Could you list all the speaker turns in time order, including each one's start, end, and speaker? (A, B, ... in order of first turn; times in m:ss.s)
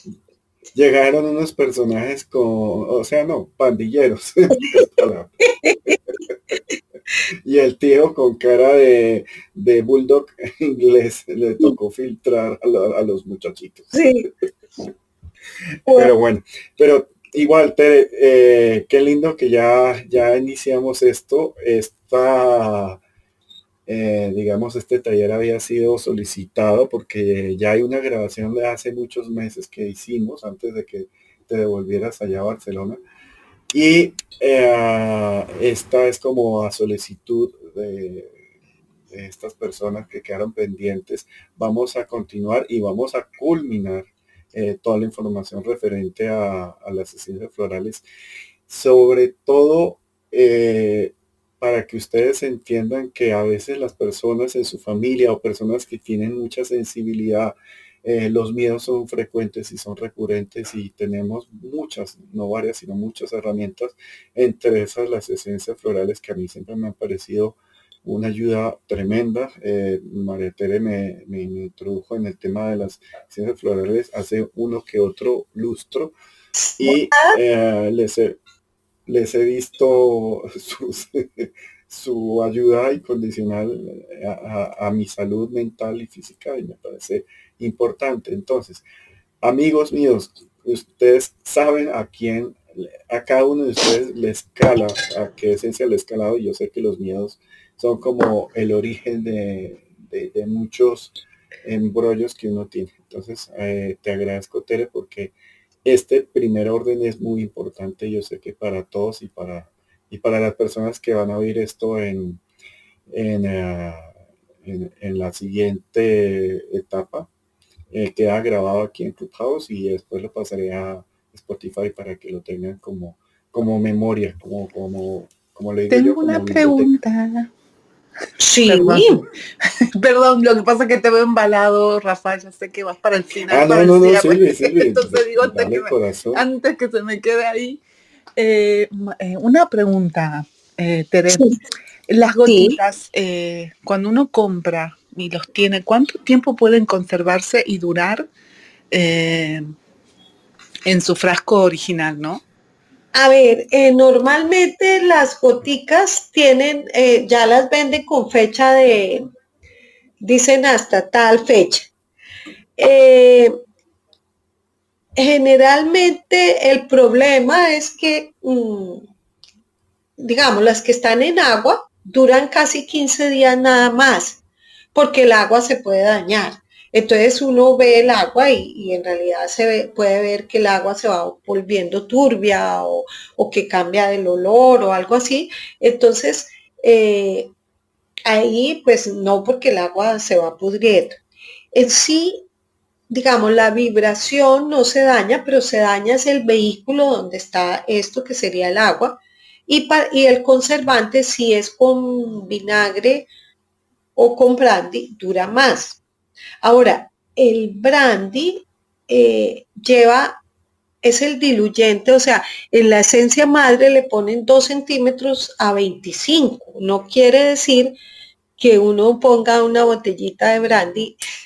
0:00.8-0:05.3 A
0:04.6-0:04.8 B
0:05.5-0:06.0 B
0:07.4-0:13.9 A
0:13.9-0:14.3 B
0:15.9-0:16.1 B
0:15.9-0:23.0 A
0:23.9-0:33.0 A
0:33.7-0:38.4 A
0:39.1-0:48.0 A
0:48.7-1:16.1 A
1:16.6-1:17.4 B
1:16.8-1:18.4 A
1:19.1-1:28.8 A
1:29.4-1:41.1 A
1:41.6-1:45.3 A
1:45.8-1:52.4 A
1:53.1-1:57.3 A
1:57.9-2:06.9 A
2:05.9-2:07.5 C
2:08.4-2:09.2 B
2:08.7-2:09.2 C
2:10.0-2:17.8 C
2:13.5-2:16.4 A
2:18.4-2:21.6 C
2:21.3-2:21.6 B
2:22.1-2:28.3 C
2:22.4-2:22.8 B
2:28.9-2:29.7 C
2:30.9-2:32.4 C
2:33.1-2:39.2 B
2:40.2-2:41.9 B
2:42.8-2:43.5 B
2:45.2-2:49.1 B
2:50.2-2:54.4 B
2:54.9-3:07.5 B
3:08.3-3:11.2 B
3:11.7-3:12.4 B
3:13.1-3:23.3 B
3:24.2-3:26.0 B
3:26.6-3:30.4 B
3:31.0-3:37.9 B
3:38.6-3:41.2 B